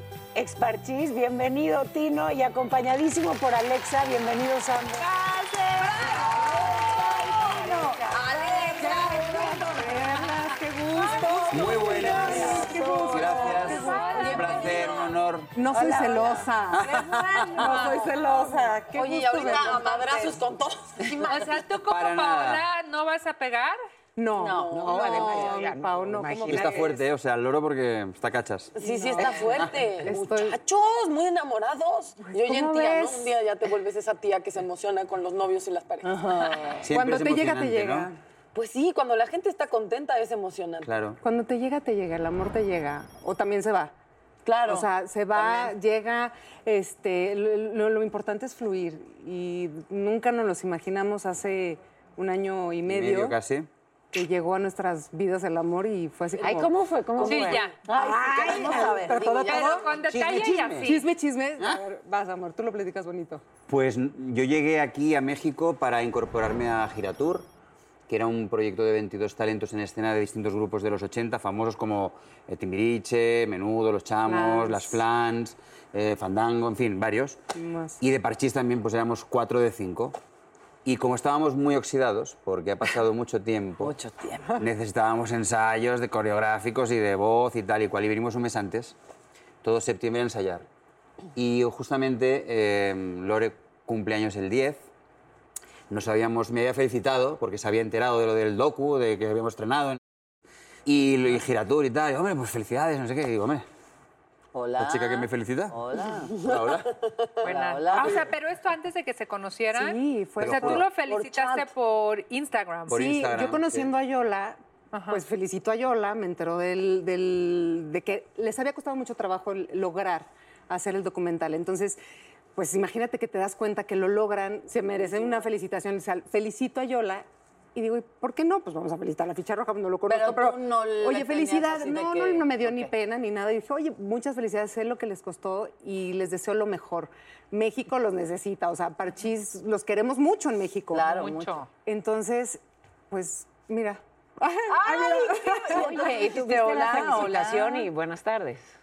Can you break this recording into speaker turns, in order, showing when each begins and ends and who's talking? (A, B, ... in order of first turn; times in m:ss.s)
0:00.3-0:05.1 A
0:05.0-0:06.4 B
0:06.0-0:09.6 C
0:08.1-0:09.9 D
0:08.8-0:14.8 E
0:10.9-0:14.9 B
0:11.5-0:15.5 F
0:12.0-0:13.5 C
0:12.1-0:13.0 D
0:15.5-0:20.1 E
0:15.8-0:16.4 A
0:16.7-0:17.6 F
0:17.5-0:18.2 B
0:18.9-0:21.6 D
0:19.5-0:20.3 C
0:21.2-0:23.8 B
0:21.9-0:22.6 F
0:24.2-0:27.0 E
0:24.4-0:25.1 C
0:24.4-0:25.6 D
0:24.7-0:26.8 A
0:26.4-0:28.7 F
0:28.8-0:36.1 D
0:28.8-0:30.6 E
0:32.2-0:33.3 E
0:36.0-0:36.8 C
0:36.8-0:38.1 F
0:36.8-0:38.2 E
0:38.5-0:40.9 D
0:40.8-0:41.2 F
0:41.2-0:43.9 E
0:44.4-0:44.8 C
0:44.6-0:53.4 E
0:52.8-0:53.7 F
0:54.1-0:59.9 E
0:56.4-0:57.7 A
0:57.2-0:57.8 B
0:57.8-0:59.9 C
0:58.5-0:59.5 D
0:59.4-1:01.1 B
1:00.1-1:00.9 F
1:00.8-1:03.4 E
1:03.7-1:07.4 F
1:08.1-1:17.4 F
1:14.2-1:15.0 E
1:17.5-1:18.0 E
1:18.0-1:20.2 F
1:20.8-1:23.9 F
1:23.8-1:24.6 C
1:24.6-1:29.0 F
1:29.6-1:30.6 F
1:31.4-1:34.9 F
1:35.9-1:40.0 F
1:40.8-1:43.6 F
1:44.5-1:46.4 C
1:44.8-1:45.8 F
1:46.4-1:46.9 F
1:47.4-1:48.3 C
1:47.4-1:53.0 B
1:49.7-1:50.8 E
1:50.4-1:50.8 F
1:52.9-1:53.9 F
1:52.9-2:02.0 E
1:54.9-1:55.2 B
2:02.5-2:21.2 E
2:10.1-2:12.9 C
2:20.9-2:21.6 C
2:21.1-2:21.7 B
2:21.8-2:26.0 E
2:24.8-2:27.9 C
2:25.6-2:28.7 A